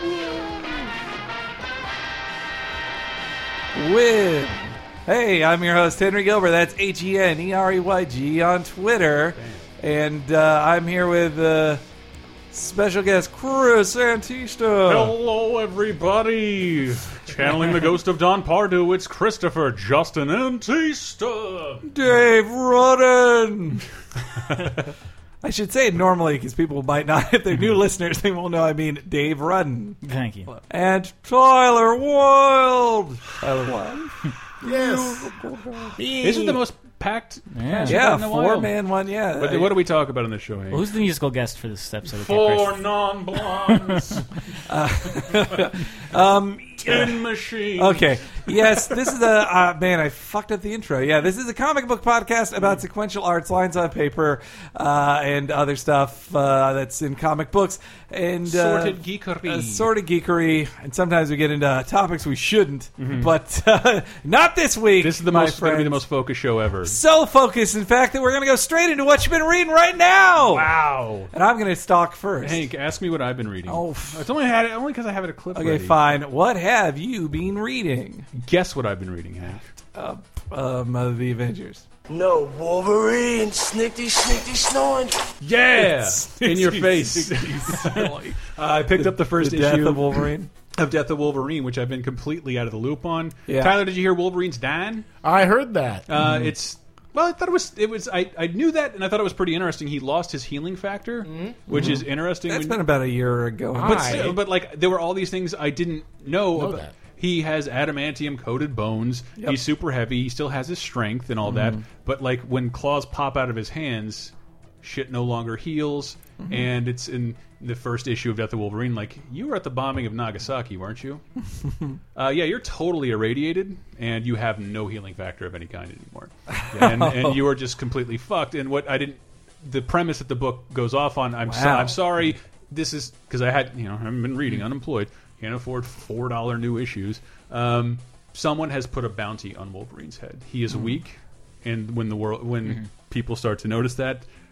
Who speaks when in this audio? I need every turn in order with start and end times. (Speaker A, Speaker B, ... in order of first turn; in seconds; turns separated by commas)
Speaker A: 0.2-0.6, Speaker A: 3.7-11.8, Speaker B: 9.4-9.7, Speaker A: 12.5-15.2, Speaker B: 14.8-21.9, Speaker A: 21.9-23.8, Speaker A: 25.4-30.0, Speaker C: 30.0-30.5, Speaker A: 30.7-36.0, Speaker D: 34.6-35.3, Speaker D: 36.0-36.6, Speaker B: 36.2-38.8, Speaker C: 37.5-38.0, Speaker A: 37.7-39.8, Speaker B: 39.4-40.8, Speaker C: 40.7-42.8, Speaker B: 42.0-44.3, Speaker A: 44.7-66.0, Speaker B: 46.8-49.1, Speaker B: 58.4-59.9, Speaker B: 63.0-63.3, Speaker B: 65.0-67.0, Speaker A: 66.8-70.8, Speaker B: 70.4-71.3, Speaker A: 71.3-72.7, Speaker B: 72.4-76.2, Speaker A: 73.7-74.2, Speaker A: 75.5-78.3, Speaker B: 78.3-79.6, Speaker A: 80.0-81.8, Speaker E: 82.1-85.3, Speaker B: 85.4-95.1, Speaker A: 85.8-90.5, Speaker A: 93.5-93.8, Speaker D: 95.2-96.5, Speaker B: 96.1-102.8, Speaker D: 101.2-101.9, Speaker A: 101.7-104.4, Speaker D: 103.7-104.4, Speaker B: 103.8-121.2, Speaker D: 106.5-106.9, Speaker A: 111.5-111.8, Speaker B: 122.2-144.3, Speaker A: 126.6-127.4, Speaker A: 131.4-132.0